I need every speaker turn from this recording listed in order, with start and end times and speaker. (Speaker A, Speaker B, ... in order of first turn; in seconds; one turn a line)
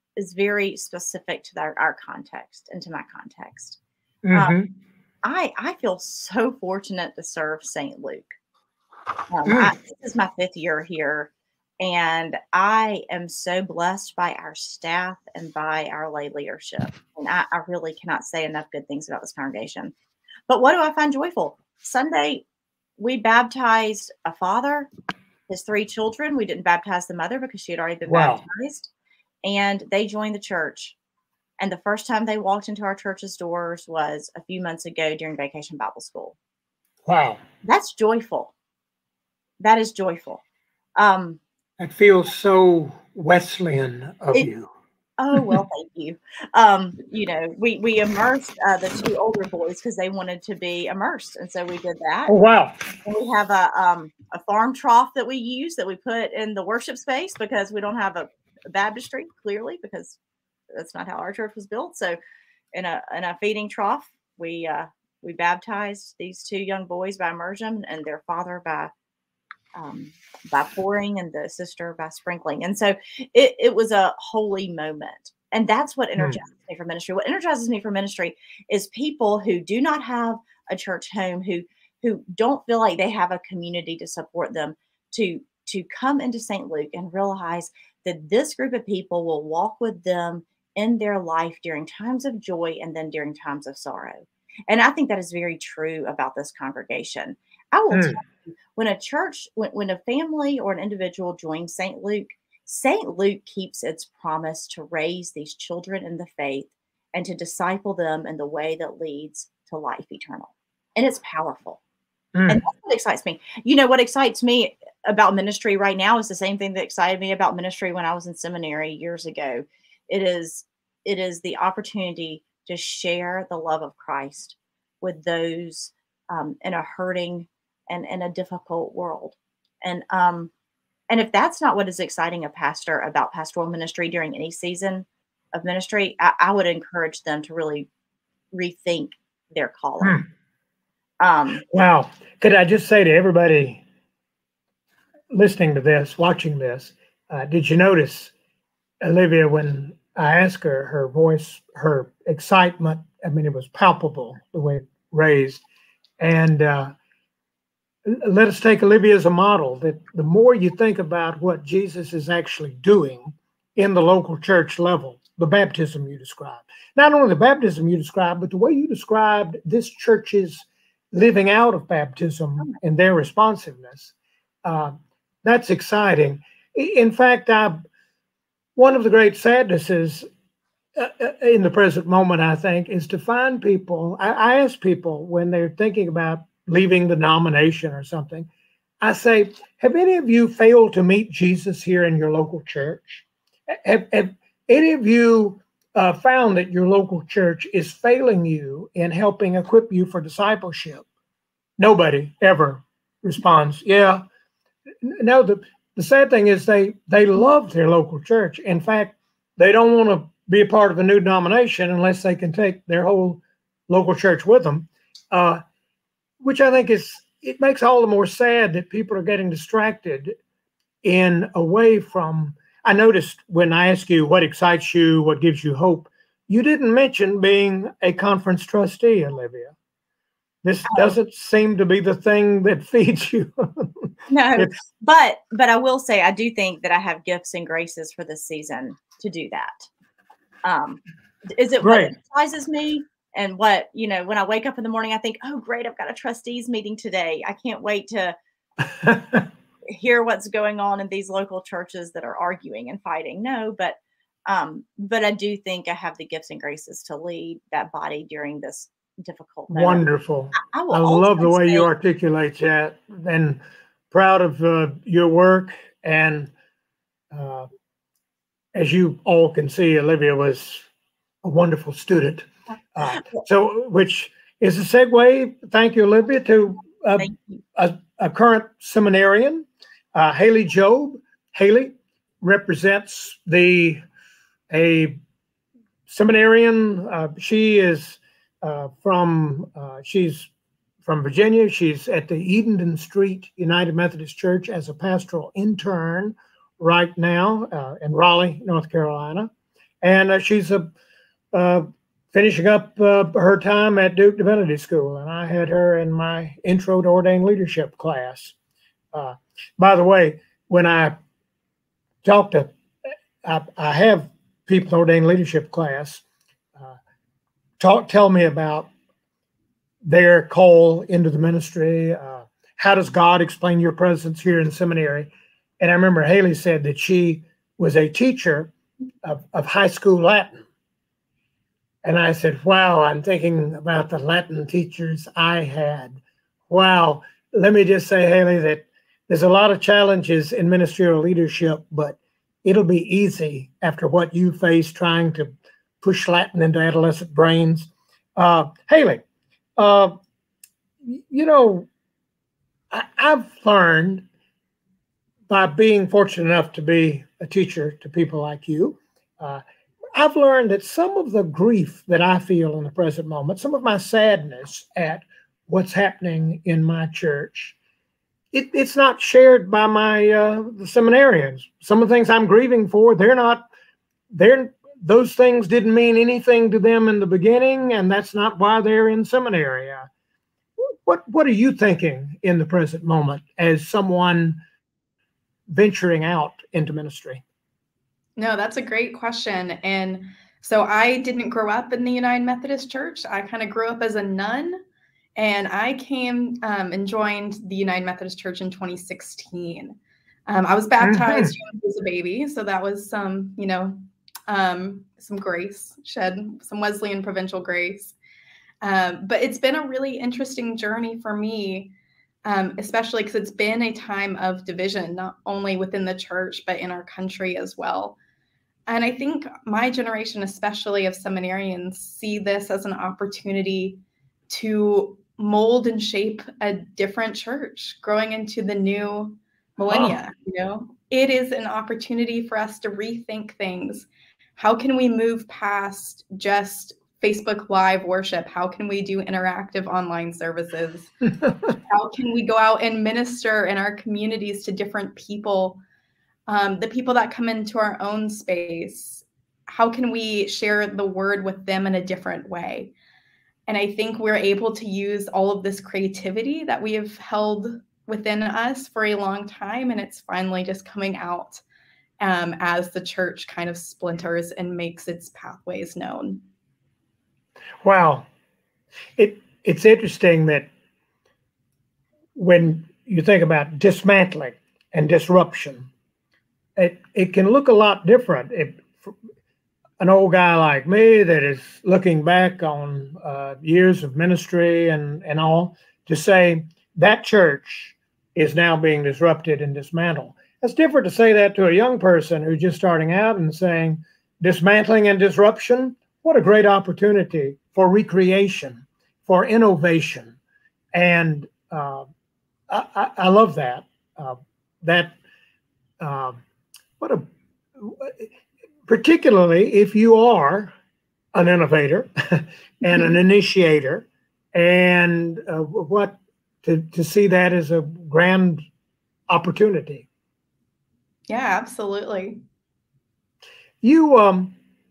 Speaker A: 0.2-3.8
Speaker B: 4.2-4.7
Speaker A: 5.2-8.3
Speaker A: 9.3-19.9
Speaker B: 9.4-9.7
Speaker A: 20.5-22.4
Speaker A: 23.0-24.9
Speaker A: 25.5-28.9
Speaker B: 28.0-28.4
Speaker A: 29.4-30.9
Speaker A: 31.6-36.4
Speaker B: 37.0-37.4
Speaker A: 37.6-38.5
Speaker A: 39.6-40.4
Speaker A: 41.0-41.4
Speaker B: 41.8-44.7
Speaker A: 45.2-52.3
Speaker B: 52.3-52.8
Speaker A: 53.0-60.2
Speaker A: 60.7-62.2
Speaker A: 62.7-68.9
Speaker A: 69.7-111.8
Speaker B: 97.9-98.2
Speaker B: 112.3-112.6
Speaker A: 112.5-130.5
Speaker A: 131.1-137.9
Speaker A: 138.5-140.2
Speaker B: 140.0-140.2
Speaker A: 141.2-141.6
Speaker B: 141.6-143.8
Speaker B: 145.3-148.3
Speaker B: 149.0-155.6
Speaker B: 156.2-156.9
Speaker B: 158.1-174.1
Speaker B: 174.6-177.8
Speaker B: 178.8-180.3
Speaker B: 180.9-188.5
Speaker B: 189.0-201.0
Speaker B: 201.8-204.2
Speaker B: 205.0-215.6
Speaker B: 216.4-220.3
Speaker B: 221.0-229.7
Speaker B: 230.6-234.7
Speaker A: 234.3-239.9
Speaker A: 240.6-248.4
Speaker B: 241.8-242.1
Speaker B: 249.0-249.4
Speaker A: 249.9-261.9
Speaker B: 259.7-266.5
Speaker B: 267.3-267.7
Speaker B: 268.7-270.8
Speaker B: 271.4-284.0
Speaker B: 284.7-285.2
Speaker B: 286.1-290.5
Speaker B: 291.1-299.5
Speaker B: 300.0-300.9
Speaker B: 301.5-308.5
Speaker B: 309.1-311.2
Speaker B: 312.2-312.7
Speaker B: 313.4-316.2
Speaker B: 317.8-318.9
Speaker B: 320.0-328.7
Speaker B: 329.2-330.6
Speaker B: 332.0-349.2
Speaker B: 349.8-350.1
Speaker B: 351.0-351.9
Speaker B: 352.9-354.2
Speaker B: 355.5-359.6
Speaker B: 360.1-367.7
Speaker B: 368.5-373.6
Speaker B: 374.3-380.1
Speaker B: 380.8-384.6
Speaker B: 385.7-387.4
Speaker C: 388.4-394.8
Speaker C: 395.4-404.0
Speaker B: 401.0-401.5
Speaker C: 404.5-408.1
Speaker C: 408.8-411.9
Speaker C: 412.4-418.1
Speaker C: 418.9-441.1
Speaker B: 429.9-430.2
Speaker C: 441.7-445.8
Speaker C: 446.5-452.9
Speaker C: 453.7-461.6
Speaker C: 462.2-466.4
Speaker B: 467.8-468.3
Speaker B: 469.2-470.7
Speaker B: 472.3-475.9
Speaker B: 476.8-479.1
Speaker B: 480.0-500.4
Speaker B: 500.9-502.1
Speaker B: 502.7-505.1
Speaker B: 506.0-506.4
Speaker B: 507.0-507.2
Speaker B: 507.8-508.3
Speaker B: 508.9-510.7
Speaker B: 511.3-518.6
Speaker B: 519.3-520.1
Speaker C: 521.3-522.4
Speaker B: 523.8-524.5